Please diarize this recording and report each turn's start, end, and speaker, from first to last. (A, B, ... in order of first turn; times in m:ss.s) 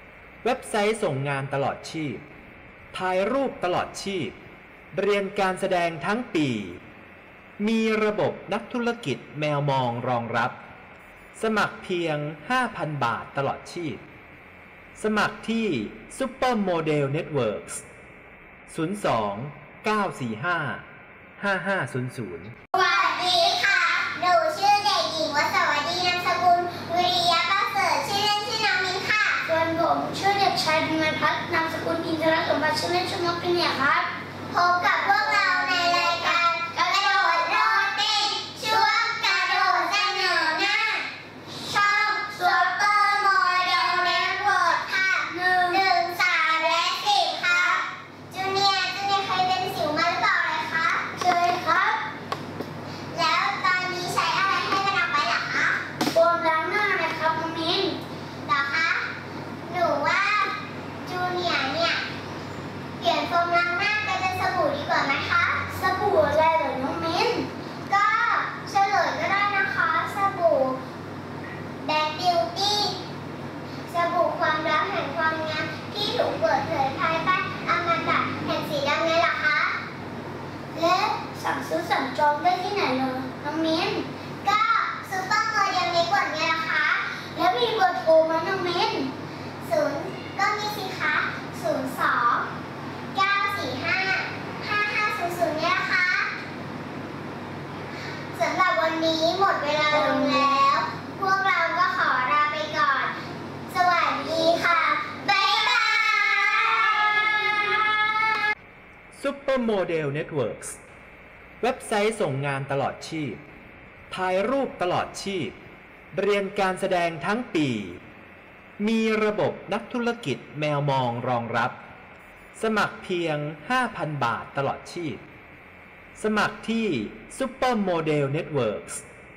0:00.4-0:02.2 A
0:02.9-0:04.4 A
0:04.9-0:06.8 A
0:07.6-0:10.6 A
0:11.4-0:14.0 A
0:15.0-0:17.8 A
0:18.7-0:20.8 A
0:21.4-0:22.5 A
0:22.7-0:29.5 B
0:29.4-0:34.1 C
0:34.5-0:41.1 B
0:34.8-0:37.8 C
0:38.6-0:39.8 C
0:41.7-0:51.1 B
0:42.4-0:42.7 C
0:45.3-0:45.8 C
0:47.5-0:47.8 C
0:51.2-0:52.0 C
0:53.1-0:55.8 B
0:56.1-0:58.0 C
0:58.5-0:59.0 B
0:59.7-1:02.0 B
1:03.0-1:05.6 B
1:05.7-1:07.5 C
1:07.9-1:10.8 B
1:11.8-1:13.0 B
1:13.9-1:19.8 B
1:20.7-1:21.2 B
1:21.4-1:24.1 C
1:24.4-1:27.0 B
1:27.4-1:29.1 C
1:29.6-1:32.5 B
1:33.1-1:36.3 B
1:38.3-1:43.1 B
1:39.9-1:40.6 C
1:43.7-1:48.3 B
1:49.1-1:50.8 A
1:51.6-1:53.4 A
1:54.1-1:55.6 A
1:56.1-1:58.0 A
1:58.8-2:01.8 A
2:02.6-2:05.2 A
2:06.2-2:09.0 A